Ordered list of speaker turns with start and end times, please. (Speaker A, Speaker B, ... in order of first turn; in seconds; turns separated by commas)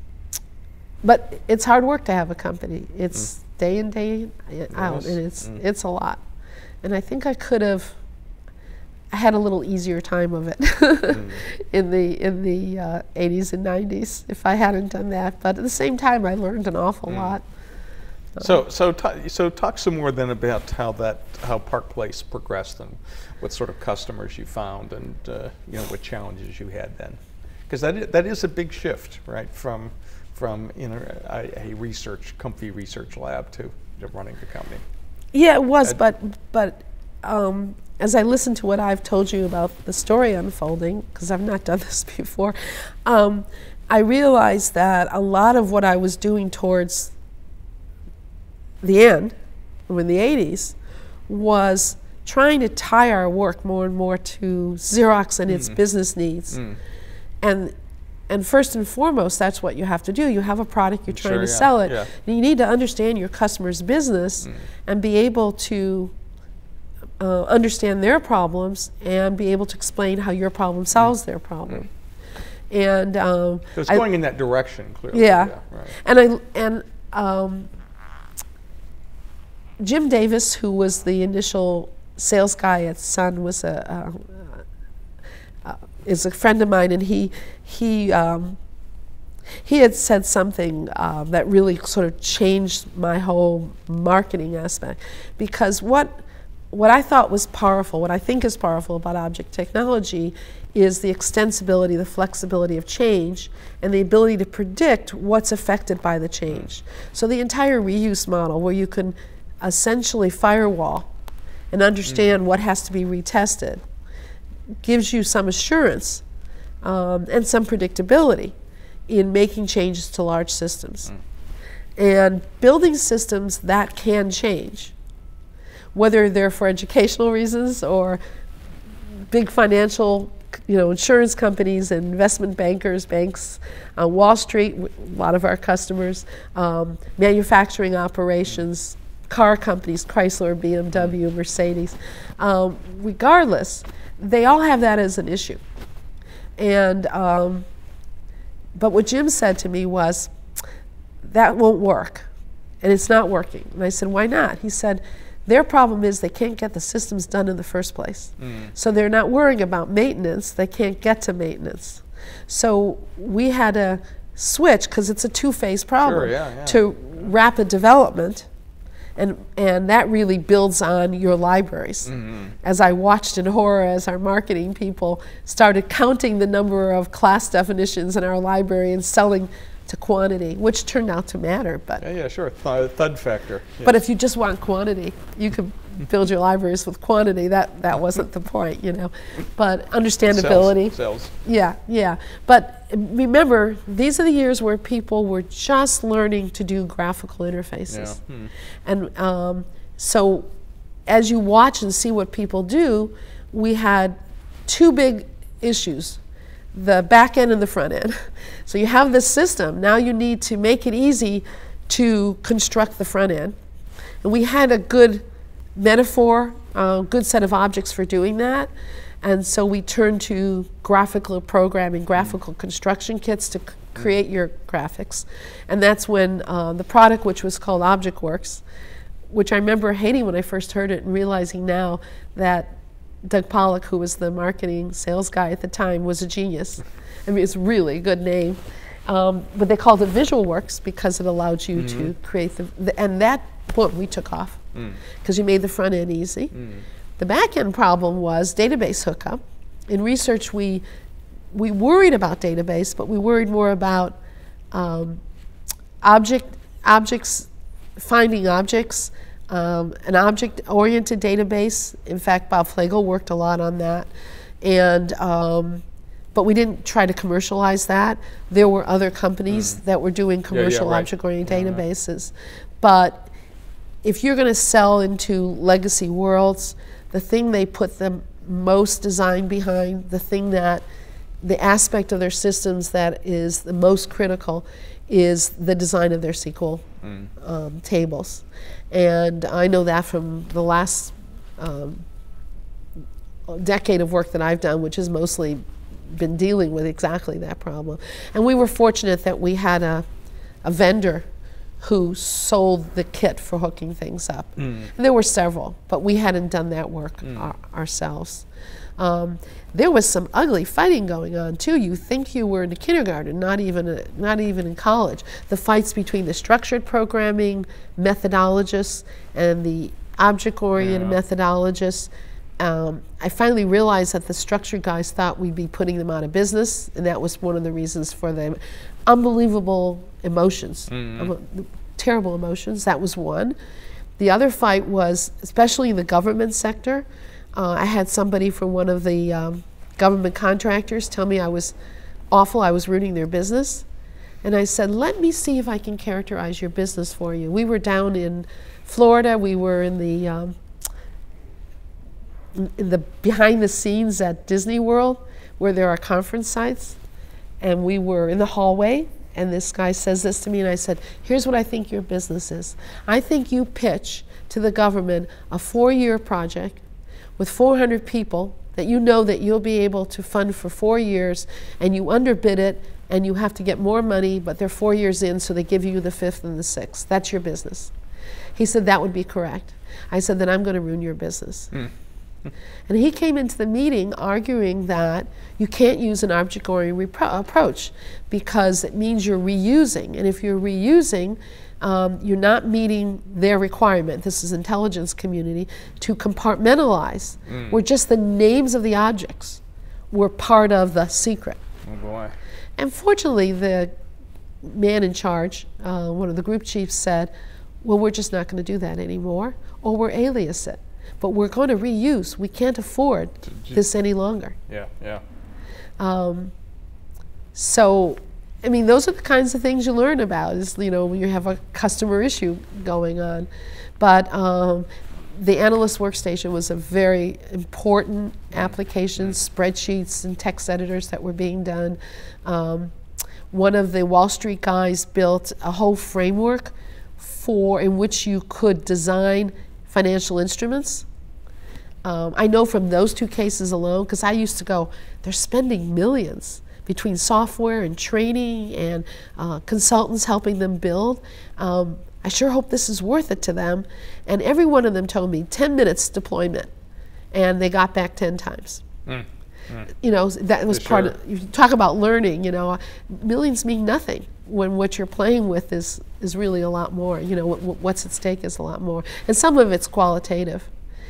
Speaker A: 1.0-6.2, Speaker B: 4.7-5.6, Speaker A: 6.8-8.0, Speaker A: 9.1-17.4, Speaker B: 11.1-11.4, Speaker B: 17.1-17.4, Speaker B: 18.4-34.8, Speaker A: 35.3-47.1, Speaker A: 48.8-49.4, Speaker A: 49.9-50.8, Speaker A: 51.3-56.6, Speaker B: 55.5-55.8, Speaker B: 56.5-56.8, Speaker A: 57.4-57.7, Speaker A: 58.3-66.1, Speaker B: 61.1-62.1, Speaker A: 67.2-71.9, Speaker A: 72.7-74.0, Speaker B: 73.7-76.0, Speaker A: 75.1-77.7, Speaker A: 79.8-84.6, Speaker A: 85.6-88.6, Speaker A: 89.6-111.1, Speaker A: 111.7-113.8, Speaker A: 114.8-116.2, Speaker A: 116.8-118.5, Speaker A: 119.1-121.1, Speaker A: 122.0-124.9, Speaker A: 125.9-128.2, Speaker A: 129.3-145.6, Speaker A: 146.6-147.7, Speaker A: 148.8-150.3, Speaker A: 151.2-152.3, Speaker A: 152.8-168.5, Speaker B: 158.4-158.7, Speaker B: 166.0-166.8, Speaker A: 169.2-182.0, Speaker B: 172.1-172.6, Speaker B: 182.0-183.9, Speaker A: 183.8-198.2, Speaker B: 190.2-191.3, Speaker B: 197.9-198.5, Speaker A: 198.8-200.5, Speaker A: 201.1-206.2, Speaker A: 206.7-213.6, Speaker A: 214.2-215.2, Speaker A: 215.8-218.7, Speaker A: 219.2-228.6, Speaker A: 229.3-244.6, Speaker B: 241.7-242.1, Speaker B: 244.7-245.0, Speaker A: 245.2-246.6, Speaker B: 246.5-246.8, Speaker A: 247.2-250.8, Speaker A: 251.5-254.2, Speaker A: 254.7-255.2, Speaker A: 256.0-264.1, Speaker A: 264.6-273.3, Speaker B: 269.5-269.8, Speaker B: 270.5-271.8, Speaker A: 274.0-280.8, Speaker A: 281.4-286.9, Speaker B: 287.0-287.3, Speaker A: 287.4-292.1, Speaker A: 293.5-300.1, Speaker A: 300.6-301.3, Speaker A: 301.8-308.5, Speaker B: 304.6-304.9, Speaker B: 307.2-307.5, Speaker A: 309.0-333.6, Speaker B: 320.8-321.2, Speaker B: 330.9-331.3, Speaker A: 334.2-337.1, Speaker A: 337.6-341.8, Speaker A: 342.3-343.9, Speaker A: 344.4-350.6, Speaker A: 352.6-357.0, Speaker A: 357.6-366.8, Speaker A: 367.4-377.9, Speaker A: 378.6-381.7, Speaker A: 382.9-401.6, Speaker B: 397.5-397.8, Speaker B: 401.8-402.4, Speaker A: 402.8-403.9, Speaker A: 404.6-407.3, Speaker A: 407.8-414.6, Speaker B: 413.4-413.8, Speaker B: 414.7-415.2, Speaker A: 416.0-416.5, Speaker A: 417.6-432.9, Speaker A: 433.5-441.1, Speaker A: 442.1-456.7, Speaker A: 457.3-458.8, Speaker B: 459.1-459.9, Speaker A: 460.0-470.7, Speaker B: 460.7-461.1